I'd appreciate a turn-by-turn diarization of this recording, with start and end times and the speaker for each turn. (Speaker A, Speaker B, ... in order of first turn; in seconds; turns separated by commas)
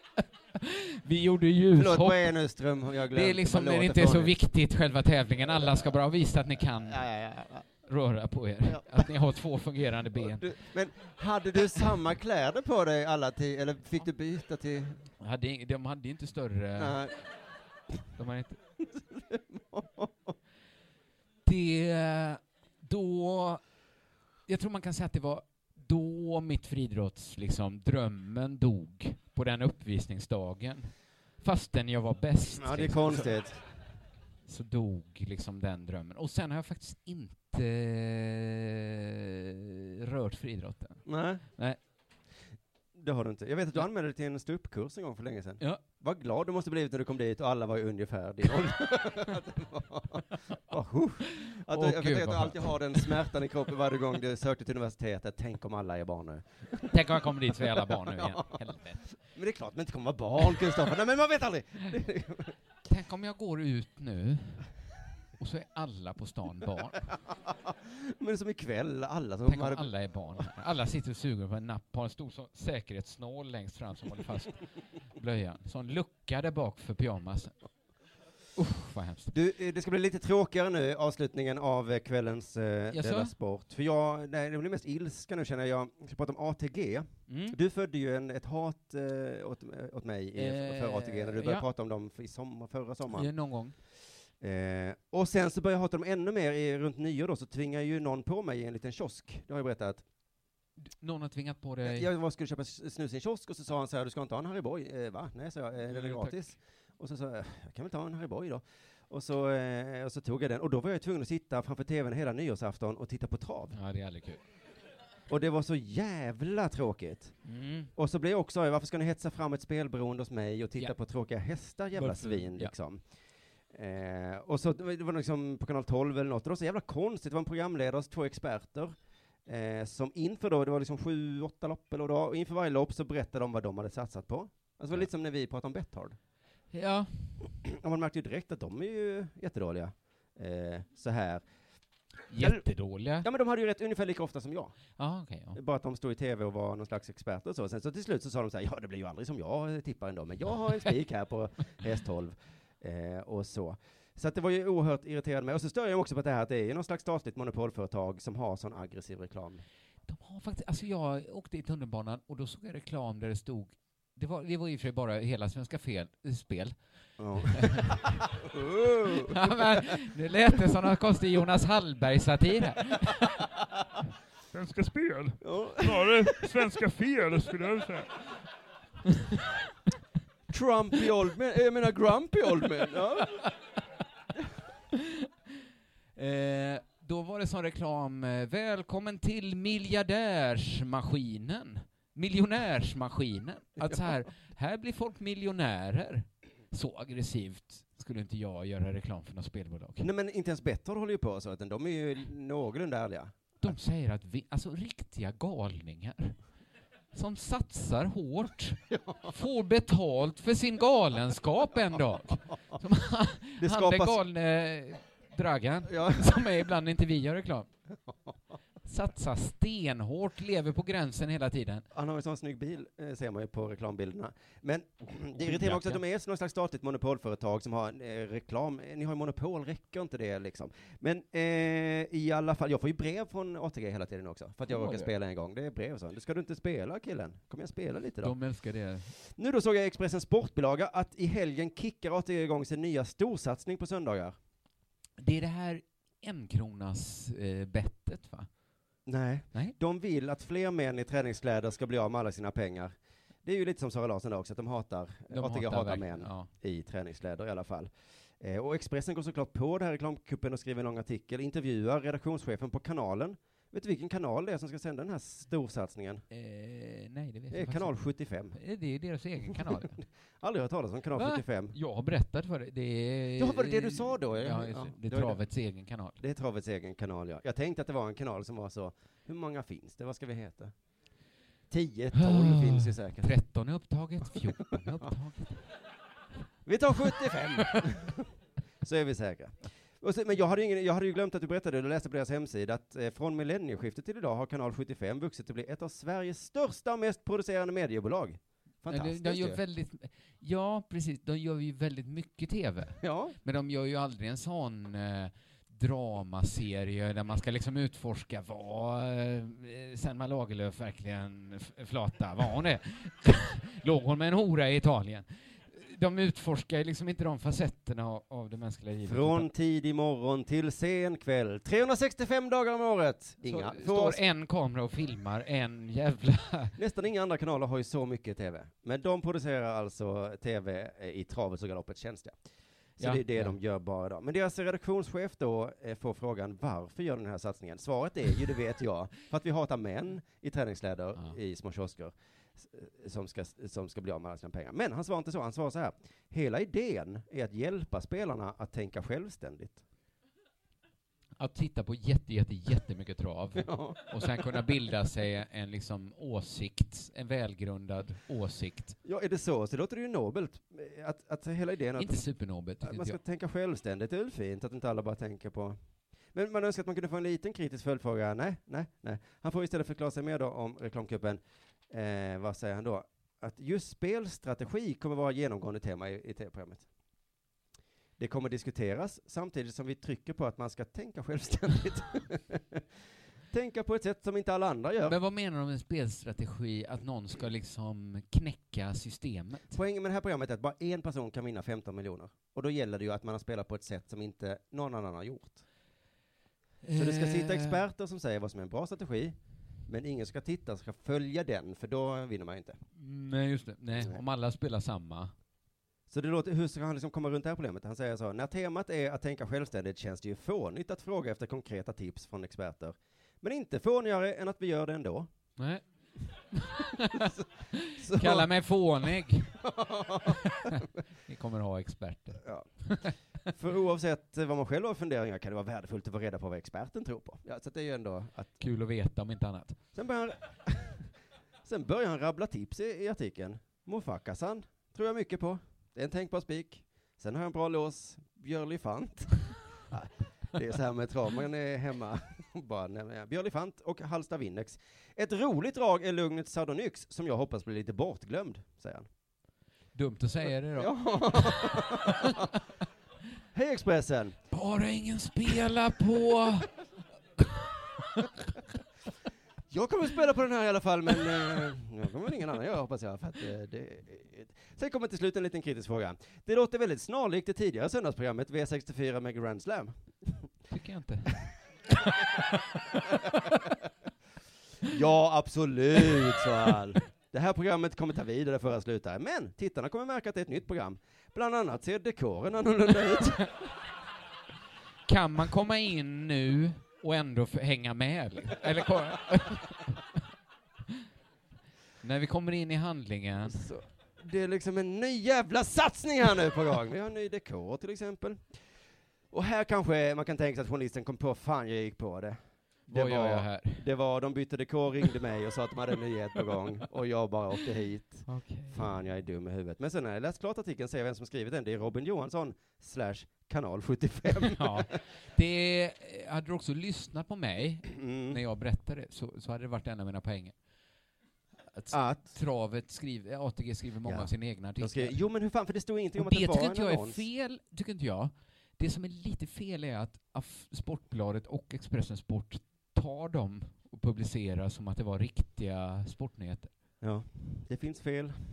Speaker A: 0.6-2.3, Speaker B: 1.8-4.4, Speaker A: 3.1-7.1, Speaker B: 5.4-6.0, Speaker B: 6.8-7.7, Speaker A: 7.9-10.5, Speaker B: 8.7-9.1, Speaker B: 10.2-15.0, Speaker A: 15.2-17.0, Speaker B: 16.8-17.2, Speaker A: 18.2-18.6, Speaker B: 18.8-20.3, Speaker A: 21.4-23.6, Speaker A: 24.5-33.4, Speaker B: 32.6-33.6, Speaker A: 34.5-41.8, Speaker B: 41.1-41.4, Speaker B: 43.0-57.0, Speaker A: 51.4-53.1, Speaker A: 56.9-59.1, Speaker B: 57.6-58.6, Speaker B: 59.3-62.5, Speaker A: 62.9-64.7, Speaker A: 65.4-67.1, Speaker B: 67.5-69.9, Speaker A: 69.5-77.6, Speaker A: 78.6-79.3, Speaker B: 79.3-93.3, Speaker A: 82.9-83.3, Speaker A: 87.3-87.6, Speaker A: 90.4-91.7, Speaker A: 93.1-93.8, Speaker B: 94.4-100.0, Speaker A: 100.8-102.1, Speaker B: 101.8-113.8, Speaker A: 105.9-106.4, Speaker A: 113.7-114.4, Speaker B: 115.3-117.4, Speaker A: 117.5-117.9, Speaker B: 118.0-123.0, Speaker A: 121.9-122.7, Speaker B: 123.7-136.2, Speaker A: 136.7-137.4, Speaker B: 137.6-141.4, Speaker A: 142.3-143.3, Speaker B: 142.4-142.7, Speaker B: 143.2-144.8, Speaker A: 145.0-145.6, Speaker B: 145.5-159.6, Speaker A: 160.1-166.8, Speaker B: 167.2-169.8, Speaker A: 167.6-168.3, Speaker A: 169.3-173.4, Speaker C: 174.5-178.1, Speaker B: 175.4-176.5, Speaker B: 180.5-183.4, Speaker A: 186.2-200.1, Speaker B: 200.0-203.5, Speaker A: 203.6-206.4, Speaker A: 207.1-217.7, Speaker B: 208.9-209.3, Speaker B: 213.6-214.2, Speaker B: 215.9-216.3, Speaker A: 218.8-221.9, Speaker B: 221.9-238.4, Speaker A: 225.3-226.0, Speaker A: 234.7-235.1, Speaker A: 238.2-239.1, Speaker B: 239.2-244.3, Speaker A: 245.2-248.5, Speaker B: 249.1-266.2, Speaker A: 255.3-256.5, Speaker A: 266.3-268.0, Speaker B: 267.5-268.6, Speaker A: 268.5-269.9, Speaker B: 269.5-271.8, Speaker A: 271.2-276.2, Speaker B: 273.4-275.4, Speaker B: 276.2-280.7, Speaker B: 281.7-283.3, Speaker A: 282.1-285.6, Speaker B: 286.7-288.3, Speaker B: 288.8-299.6, Speaker A: 298.9-319.5, Speaker B: 303.0-303.4, Speaker B: 319.0-324.2, Speaker A: 323.4-326.8, Speaker B: 326.8-332.4, Speaker B: 333.0-349.8, Speaker A: 333.0-333.6, Speaker A: 351.4-358.9, Speaker B: 353.6-354.4, Speaker B: 359.0-362.3, Speaker A: 362.0-363.2, Speaker B: 362.8-365.8, Speaker B: 366.3-376.9, Speaker B: 378.2-382.8, Speaker B: 383.5-385.2, Speaker A: 385.1-389.7, Speaker B: 389.7-395.6, Speaker A: 396.8-397.8, Speaker B: 396.9-399.4, Speaker B: 399.9-402.8, Speaker A: 402.9-405.3, Speaker B: 406.1-415.3, Speaker A: 415.6-415.8, Speaker A: 416.5-419.6, Speaker B: 418.0-418.5, Speaker B: 419.6-420.7, Speaker A: 420.3-423.1, Speaker B: 422.4-422.7, Speaker B: 423.5-428.6, Speaker A: 428.6-429.8, Speaker B: 429.9-431.1, Speaker B: 431.6-449.1, Speaker A: 449.9-452.5, Speaker B: 450.8-452.5, Speaker B: 453.5-454.4, Speaker A: 454.5-456.7, Speaker B: 459.7-470.5, Speaker A: 470.7-471.5, Speaker B: 474.9-483.5, Speaker A: 485.1-490.0, Speaker A: 492.0-493.7, Speaker B: 493.5-498.6, Speaker B: 499.3-514.9, Speaker A: 502.9-503.9, Speaker A: 508.3-509.0, Speaker A: 514.4-520.5, Speaker B: 517.9-518.4, Speaker A: 521.7-525.2, Speaker B: 521.9-522.3, Speaker B: 524.0-527.2, Speaker A: 526.2-536.7, Speaker B: 537.0-538.4